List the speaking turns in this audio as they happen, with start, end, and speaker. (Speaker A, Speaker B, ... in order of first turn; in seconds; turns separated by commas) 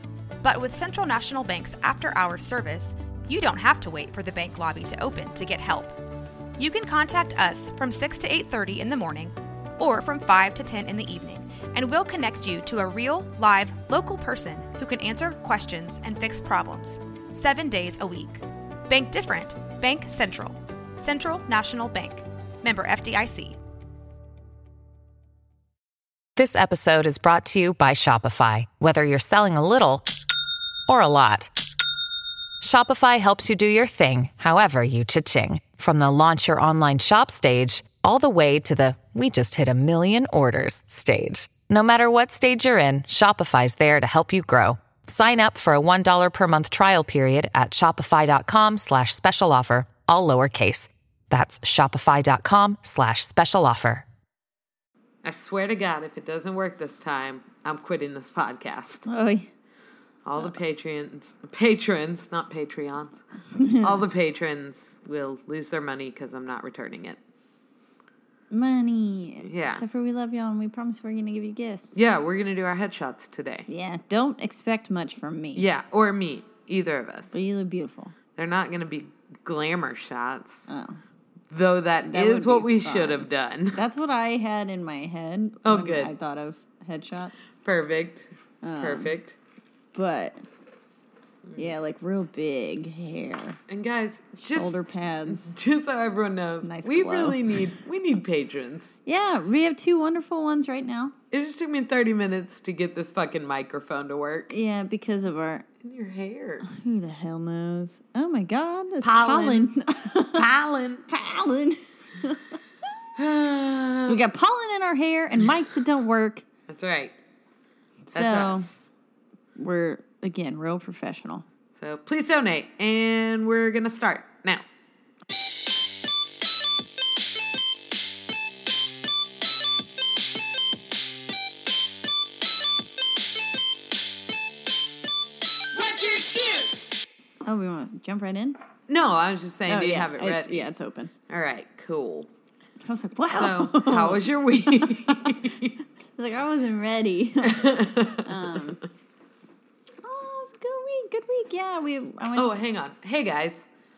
Speaker A: 0.4-6.0, Speaker A: 6.6-23.6, Speaker B: 26.4-30.1, Speaker B: 30.9-31.5, Speaker B: 32.6-54.0, Speaker C: 55.2-59.1, Speaker D: 59.1-59.5, Speaker C: 60.2-63.2, Speaker D: 63.5-64.0, Speaker C: 63.8-67.2, Speaker D: 68.5-72.0, Speaker C: 69.4-69.8, Speaker C: 71.9-73.7, Speaker D: 73.7-75.7, Speaker C: 75.5-77.4, Speaker D: 77.3-78.1, Speaker C: 78.4-80.7, Speaker D: 80.7-81.0, Speaker C: 81.5-83.8, Speaker D: 82.0-87.4, Speaker C: 85.6-86.1, Speaker C: 87.6-89.4, Speaker D: 88.6-89.2, Speaker D: 89.9-90.4, Speaker D: 91.6-93.6, Speaker C: 93.7-99.0, Speaker D: 94.5-95.5, Speaker D: 96.6-97.7, Speaker D: 99.1-101.1, Speaker C: 101.3-104.5, Speaker D: 104.5-105.7, Speaker C: 105.8-106.7, Speaker D: 106.7-110.5, Speaker C: 109.0-109.7, Speaker C: 110.3-111.0, Speaker D: 111.1-112.6, Speaker C: 113.2-114.2, Speaker D: 114.1-116.4, Speaker C: 116.7-117.2, Speaker D: 118.1-118.7, Speaker C: 118.1-118.9, Speaker D: 119.6-121.5, Speaker C: 121.7-124.7, Speaker C: 135.8-136.9, Speaker D: 137.4-138.6, Speaker C: 138.9-140.7, Speaker D: 139.7-141.1, Speaker C: 141.3-142.3, Speaker D: 142.8-145.5, Speaker C: 143.3-145.7, Speaker D: 146.2-148.8, Speaker C: 147.4-148.7, Speaker D: 150.0-152.6, Speaker C: 152.3-153.7